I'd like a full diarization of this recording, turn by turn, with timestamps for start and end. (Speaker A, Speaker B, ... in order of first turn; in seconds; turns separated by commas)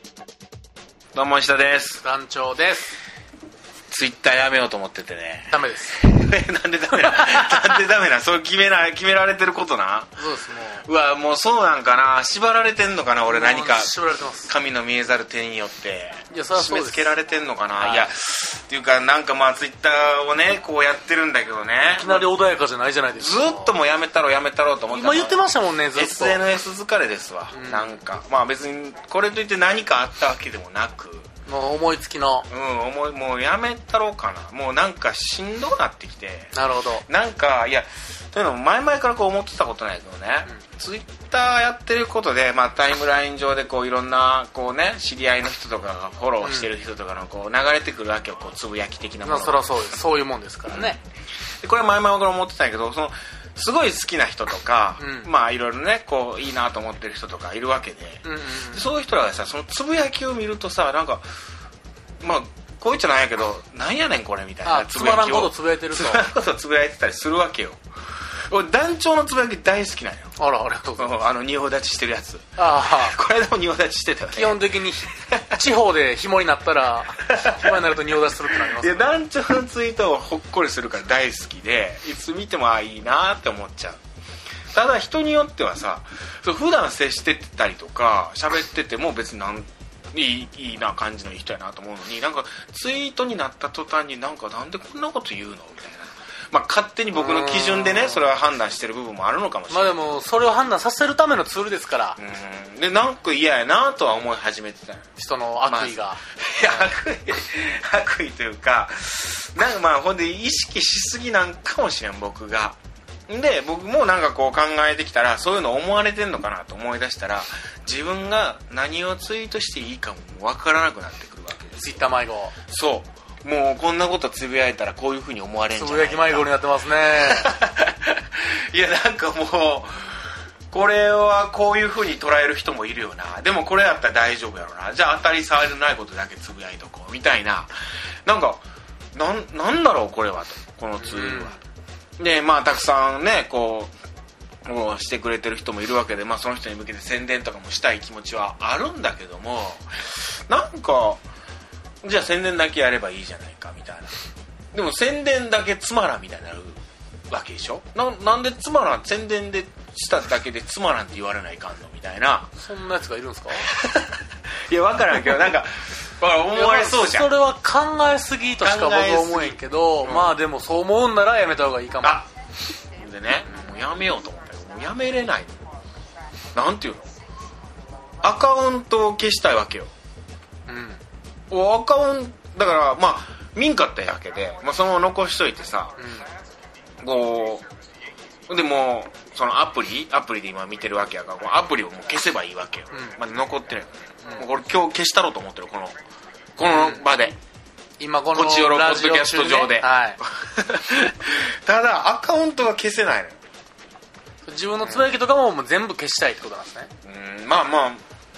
Speaker A: 1.1-2.0, Speaker B: 2.0-3.0, Speaker A: 3.9-10.2, Speaker B: 5.5-6.0, Speaker B: 7.0-7.6, Speaker B: 10.2-10.8, Speaker A: 10.8-13.9, Speaker B: 13.3-14.5, Speaker A: 14.5-22.3, Speaker B: 16.3-17.1, Speaker B: 17.8-18.1, Speaker B: 22.0-23.8, Speaker A: 23.2-31.3, Speaker B: 24.9-26.4, Speaker B: 27.5-28.0, Speaker B: 31.5-32.5, Speaker A: 32.5-49.8, Speaker B: 36.5-37.0, Speaker B: 46.4-46.7, Speaker B: 49.2-51.0, Speaker A: 50.7-51.0, Speaker A: 51.6-61.2, Speaker B: 55.0-55.3, Speaker B: 58.2-58.9, Speaker A: 62.2-67.8, Speaker B: 64.6-66.3, Speaker A: 68.5-70.3, Speaker B: 70.4-71.3, Speaker A: 71.0-74.6, Speaker B: 72.6-73.2, Speaker B: 74.3-79.1, Speaker A: 77.3-77.8, Speaker A: 78.5-84.0, Speaker A: 84.7-100.0, Speaker B: 97.1-98.3, Speaker B: 99.7-102.2, Speaker A: 102.2-105.1, Speaker B: 105.2-106.9, Speaker A: 105.7-112.8, Speaker A: 113.3-122.0, Speaker B: 121.8-122.5, Speaker A: 122.7-126.5, Speaker B: 125.7-127.5, Speaker A: 127.2-137.7, Speaker A: 138.3-138.6, Speaker A: 139.1-141.6, Speaker B: 141.0-141.6, Speaker A: 142.2-143.9, Speaker A: 144.7-151.2, Speaker A: 152.0-154.1, Speaker A: 154.7-156.8, Speaker A: 157.3-162.5, Speaker B: 162.6-163.7, Speaker A: 163.6-167.3, Speaker B: 166.5-172.2, Speaker A: 168.6-170.3, Speaker A: 172.0-172.3, Speaker A: 173.0-175.6, Speaker A: 176.5-177.1, Speaker A: 178.2-179.9, Speaker B: 180.7-181.0, Speaker A: 181.5-186.0, Speaker B: 186.0-186.3, Speaker A: 187.0-187.7, Speaker A: 188.5-196.0, Speaker A: 196.6-197.4, Speaker B: 196.6-197.1, Speaker B: 198.0-200.2, Speaker A: 198.3-203.4, Speaker B: 204.4-206.9, Speaker A: 204.8-205.1, Speaker A: 207.0-208.0